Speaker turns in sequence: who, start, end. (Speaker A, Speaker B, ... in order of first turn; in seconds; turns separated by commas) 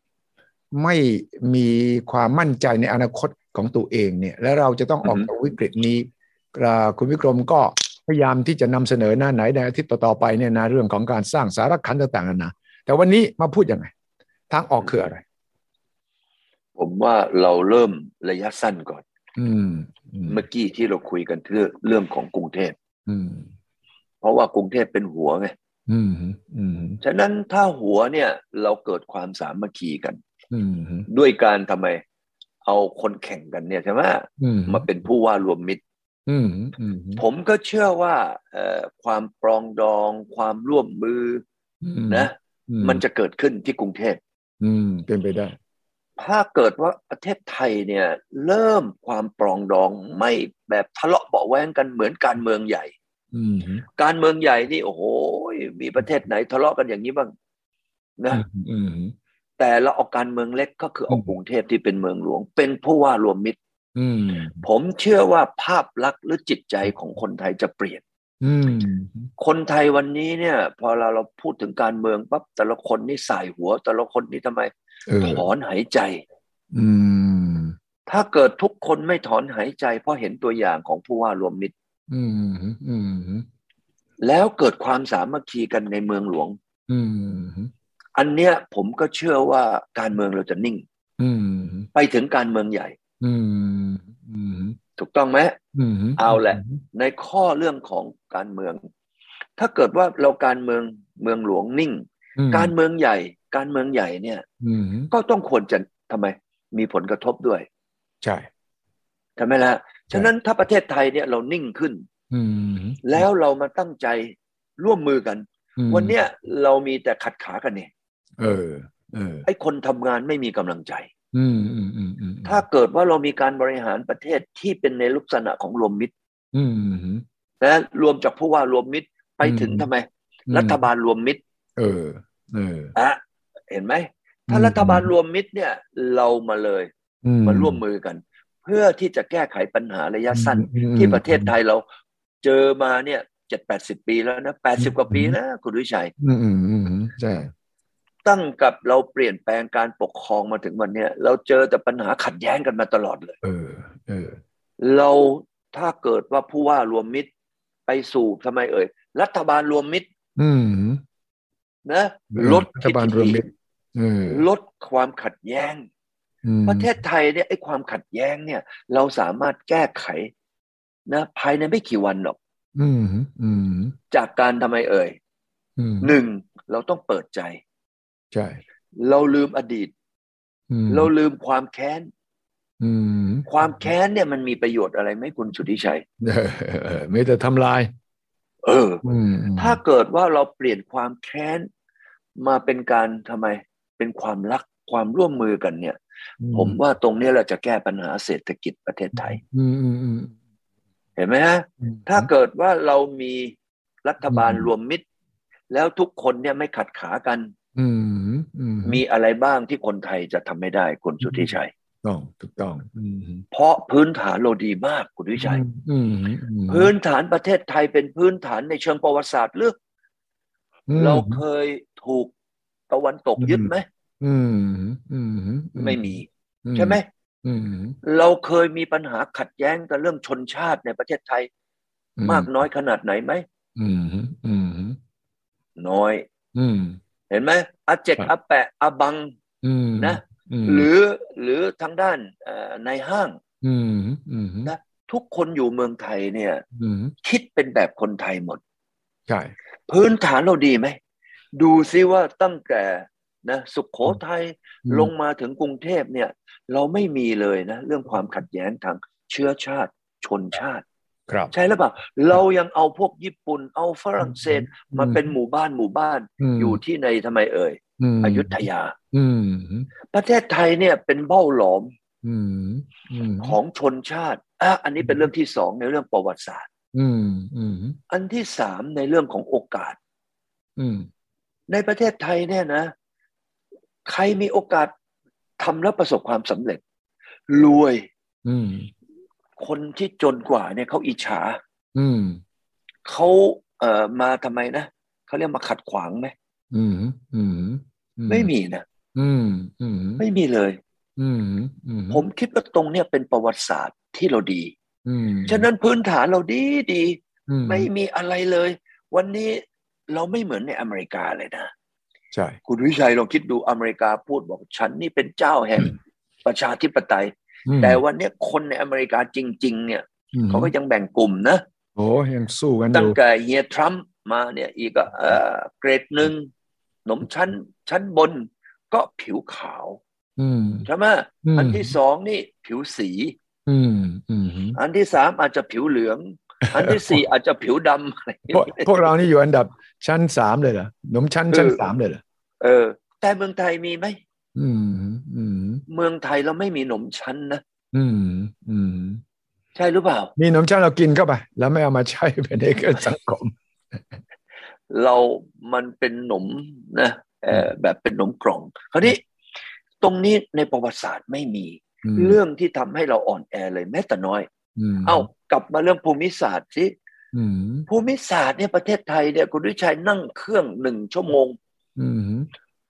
Speaker A: 0.7-13.9, Speaker B: 5.0-5.3, Speaker A: 14.5-15.2, Speaker B: 16.8-19.0, Speaker A: 19.4-20.4, Speaker B: 20.3-22.8, Speaker A: 23.1-23.5, Speaker B: 24.2-25.5, Speaker A: 25.9-27.0, Speaker B: 27.0-30.2, Speaker A: 30.5-31.1, Speaker B: 31.1-32.0, Speaker B: 32.7-35.8, Speaker A: 34.4-34.9, Speaker A: 36.3-37.2, Speaker B: 37.2-41.4, Speaker A: 41.8-43.0, Speaker B: 42.1-44.2, Speaker A: 44.6-45.6, Speaker B: 46.2-52.9, Speaker A: 53.3-53.9, Speaker B: 54.0-57.3, Speaker B: 58.2-58.4, Speaker A: 58.3-59.1, Speaker B: 59.6-63.6, Speaker A: 64.0-64.7, Speaker B: 64.6-68.0, Speaker A: 68.4-69.3, Speaker B: 69.4-76.2, Speaker A: 75.1-75.5, Speaker A: 76.7-77.8, Speaker B: 78.1-81.7, Speaker A: 82.1-83.5, Speaker B: 84.2-86.6, Speaker A: 86.9-87.7, Speaker B: 88.2-90.8, Speaker A: 91.2-91.9, Speaker B: 92.0-93.0, Speaker A: 93.2-94.8, Speaker B: 95.0-95.6, Speaker A: 95.7-96.8, Speaker B: 96.2-98.8, Speaker B: 99.6-104.4, Speaker A: 102.4-102.7, Speaker A: 104.6-105.1, Speaker B: 105.1-107.7, Speaker A: 108.2-108.5, Speaker B: 109.4-112.0, Speaker A: 112.3-113.2, Speaker B: 113.0-117.9, Speaker A: 115.8-116.2, Speaker A: 118.4-119.5, Speaker B: 119.5-121.1, Speaker A: 121.3-122.6, Speaker B: 122.5-126.1, Speaker A: 126.5-127.2, Speaker B: 127.6-131.4, Speaker A: 129.4-129.9, Speaker A: 130.5-130.8, Speaker A: 131.8-132.9, Speaker B: 132.9-136.9, Speaker A: 134.5-135.1, Speaker A: 137.2-137.8, Speaker B: 137.4-141.8, Speaker A: 140.3-141.5, Speaker B: 142.4-146.1, Speaker A: 144.8-145.4, Speaker A: 146.2-147.5, Speaker B: 148.2-153.4, Speaker A: 153.4-154.4, Speaker B: 154.8-157.3, Speaker B: 157.9-160.1, Speaker A: 160.4-161.0, Speaker B: 161.8-163.4, Speaker A: 162.3-164.4, Speaker B: 164.3-165.9, Speaker A: 166.4-167.0, Speaker B: 166.7-170.3, Speaker B: 171.1-172.4, Speaker A: 172.8-174.0, Speaker B: 174.1-175.2, Speaker A: 175.8-176.1, Speaker B: 176.0-177.6, Speaker A: 178.3-178.6, Speaker B: 179.0-179.9, Speaker A: 180.7-181.1, Speaker B: 180.9-182.1, Speaker A: 182.8-183.5, Speaker B: 183.5-186.0, Speaker A: 186.2-187.9, Speaker B: 188.6-189.0, Speaker A: 189.0-189.8, Speaker B: 189.6-191.7, Speaker B: 192.4-196.0, Speaker A: 196.4-196.8, Speaker B: 196.5-199.4, Speaker A: 199.2-200.4, Speaker B: 201.2-205.0, Speaker A: 201.8-202.3, Speaker A: 204.3-204.7, Speaker B: 205.7-207.5, Speaker A: 207.8-209.0, Speaker B: 208.8-211.7, Speaker A: 211.2-213.4, Speaker B: 213.5-215.6, Speaker A: 215.4-216.9, Speaker B: 216.7-219.8, Speaker A: 220.9-221.4, Speaker B: 221.0-222.3, Speaker B: 222.9-223.9, Speaker A: 223.4-228.0, Speaker B: 225.8-227.1, Speaker B: 228.0-231.5, Speaker A: 232.2-232.5, Speaker B: 232.2-233.4, Speaker A: 233.8-235.0, Speaker B: 235.8-236.3, Speaker A: 236.6-237.0, Speaker B: 237.3-239.3, Speaker A: 239.6-240.9, Speaker B: 240.0-243.4, Speaker A: 243.6-244.7, Speaker B: 244.7-246.6, Speaker A: 246.8-247.1, Speaker B: 247.2-248.6, Speaker A: 249.3-249.5, Speaker B: 249.9-251.0, Speaker B: 251.6-260.8, Speaker A: 254.9-255.1, Speaker B: 261.5-268.9, Speaker A: 264.2-265.3, Speaker A: 266.4-266.8, Speaker A: 268.0-269.9, Speaker B: 270.1-271.9, Speaker A: 272.2-273.6, Speaker B: 273.4-276.7, Speaker A: 275.0-275.3, Speaker A: 276.9-278.0, Speaker B: 278.1-280.0, Speaker A: 280.8-281.1, Speaker B: 281.7-282.9, Speaker B: 284.1-284.9, Speaker B: 285.6-286.8, Speaker B: 287.5-288.1, Speaker A: 288.4-288.9, Speaker B: 289.6-291.6, Speaker A: 291.9-292.4, Speaker B: 293.1-296.3, Speaker A: 296.7-298.5, Speaker B: 298.3-298.9, Speaker A: 299.1-300.2, Speaker B: 300.2-300.8, Speaker A: 301.2-302.2, Speaker B: 302.1-304.7, Speaker A: 305.1-305.7, Speaker B: 305.5-311.7, Speaker A: 307.5-307.9, Speaker A: 312.3-312.6, Speaker B: 312.7-321.6, Speaker A: 317.7-318.0, Speaker A: 320.3-320.7, Speaker A: 322.0-323.2, Speaker B: 322.9-326.5, Speaker B: 327.1-330.0, Speaker A: 330.4-330.9, Speaker B: 330.9-333.4, Speaker A: 331.4-332.0, Speaker A: 333.7-334.8, Speaker B: 334.8-339.1, Speaker A: 336.6-337.2, Speaker A: 338.5-342.2, Speaker B: 341.5-341.8, Speaker B: 342.6-344.2, Speaker A: 344.6-345.8, Speaker B: 345.9-347.6, Speaker A: 347.9-349.2, Speaker B: 349.8-350.3, Speaker A: 350.4-353.6, Speaker B: 354.9-359.2, Speaker B: 360.0-364.5, Speaker A: 362.0-362.4, Speaker A: 364.8-365.3, Speaker B: 365.1-366.9, Speaker A: 367.3-367.9, Speaker B: 367.9-371.6, Speaker A: 372.0-372.5